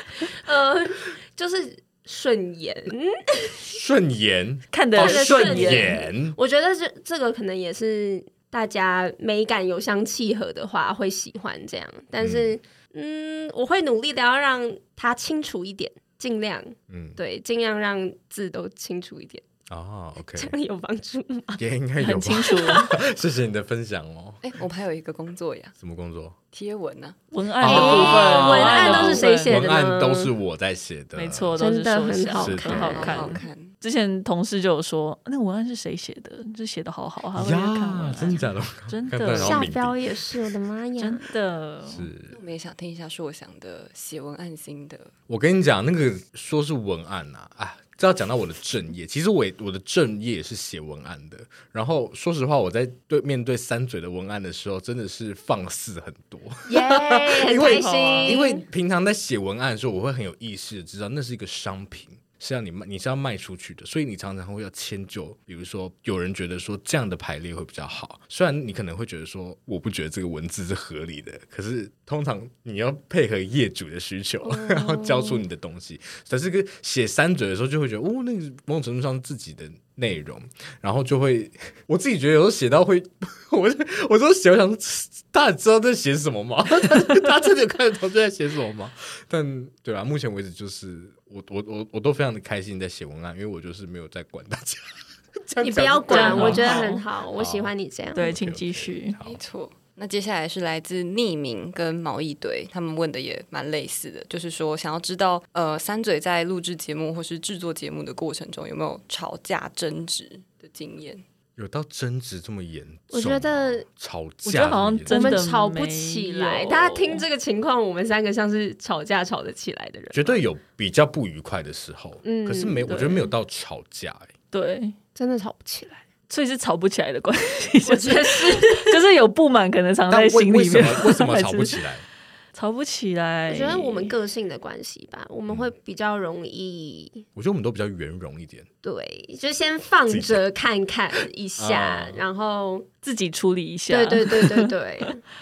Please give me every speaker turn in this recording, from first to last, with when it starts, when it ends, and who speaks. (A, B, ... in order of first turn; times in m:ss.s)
0:00.4-0:03.6 A
0:03.7-0:06.4 B
0:04.7-0:06.0 C
0:05.0-0:19.4 A
0:12.2-0:12.5 B
0:16.9-0:17.2 B
0:19.7-0:20.5 B
0:20.3-0:21.6 A
0:21.6-0:24.5 B
0:22.0-0:23.0 C
0:24.4-0:25.7 D
0:25.8-0:26.4 B
0:26.5-0:27.2 D
0:27.3-0:29.5 C
0:27.6-0:31.6 B
0:27.6-0:30.3 A
0:31.2-0:39.7 C
0:31.6-0:33.1 A
0:32.4-0:33.4 B
0:32.9-0:33.7 D
0:37.4-0:40.5 B
0:39.3-0:41.3 A
0:41.0-0:42.1 C
0:41.8-0:42.4 B
0:42.3-0:45.1 D
0:45.3-1:39.4 B
0:56.7-0:58.6 A
0:57.6-0:58.4 C
1:14.4-1:15.4 A
1:35.6-1:38.4 A
1:36.1-1:37.0 C
1:38.1-1:39.2 C
1:39.2-1:51.2 D
1:51.6-1:55.4 B
1:53.1-1:53.8 A
1:54.4-1:57.2 C
1:55.1-2:00.4 A
2:00.1-2:04.3 B
2:02.2-2:03.3 A
2:02.9-2:03.2 C
2:04.5-2:04.9 C
2:05.1-2:06.0 A
2:06.3-2:11.8 C
2:07.8-2:09.0 A
2:10.1-2:12.0 B
2:12.5-2:14.1 C
2:13.5-2:17.2 A
2:17.3-2:18.7 B
2:18.8-2:22.9 A
2:20.1-2:20.4 B
2:21.6-2:22.2 B
2:23.0-2:25.1 C
2:23.9-2:25.2 A